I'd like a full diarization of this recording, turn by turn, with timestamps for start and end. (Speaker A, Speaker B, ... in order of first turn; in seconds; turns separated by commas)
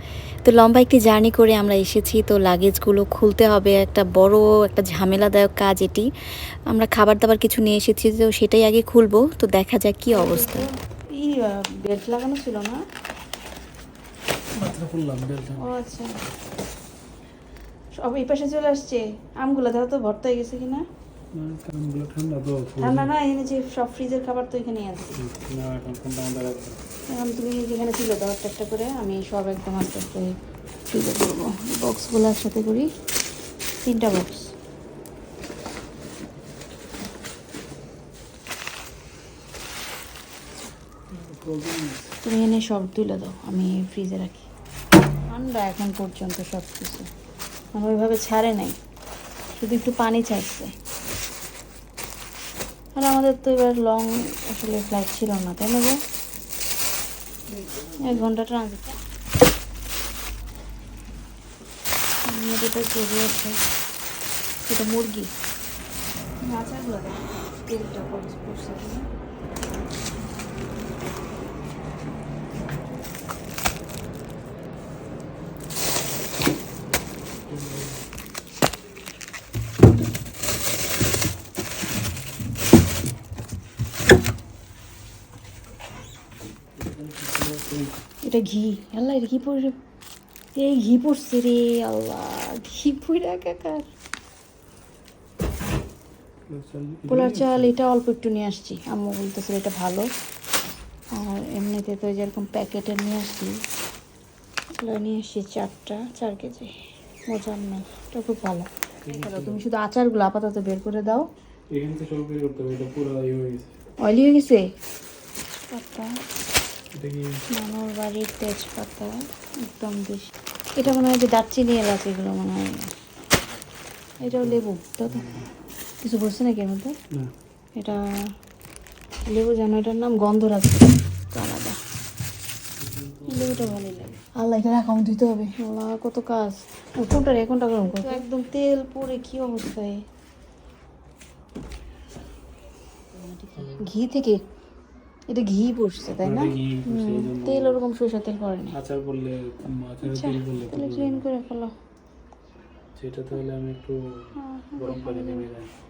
Speaker A: 0.4-6.1, Speaker A: 6.7-10.7, Speaker B: 10.1-12.8, Speaker C: 14.5-15.7, Speaker B: 15.6-16.1, Speaker B: 18.0-20.8, Speaker C: 21.3-23.1, Speaker B: 22.8-25.2, Speaker C: 25.2-26.8, Speaker B: 27.1-30.3, Speaker B: 30.9-32.9, Speaker B: 33.8-34.5, Speaker C: 41.1-42.2, Speaker B: 42.2-44.5, Speaker B: 45.3-47.1, Speaker B: 47.7-48.8, Speaker B: 49.5-50.7, Speaker B: 53.0-56.0, Speaker B: 58.0-59.0, Speaker B: 62.2-63.6, Speaker B: 64.7-65.3, Speaker B: 66.4-69.1, Speaker C: 77.5-78.0, Speaker C: 86.8-88.0, Speaker B: 88.2-89.7, Speaker B: 90.5-93.9, Speaker C: 96.5-97.7, Speaker B: 97.1-100.1, Speaker B: 101.1-103.6, Speaker B: 104.7-106.7, Speaker B: 107.3-111.3, Speaker C: 109.0-109.6, Speaker C: 111.7-113.7, Speaker B: 114.0-114.7, Speaker B: 115.7-116.1, Speaker C: 117.0-117.4, Speaker B: 117.5-122.9, Speaker B: 124.2-125.4, Speaker C: 124.2-125.5, Speaker B: 126.0-126.9, Speaker B: 127.8-128.0, Speaker B: 129.2-131.8, Speaker C: 132.8-134.1, Speaker B: 133.3-140.0, Speaker C: 143.5-143.9, Speaker B: 143.8-144.4, Speaker B: 145.3-148.8, Speaker C: 146.2-147.8, Speaker C: 148.7-151.2, Speaker B: 150.1-151.7, Speaker C: 153.0-155.7, Speaker B: 154.4-155.4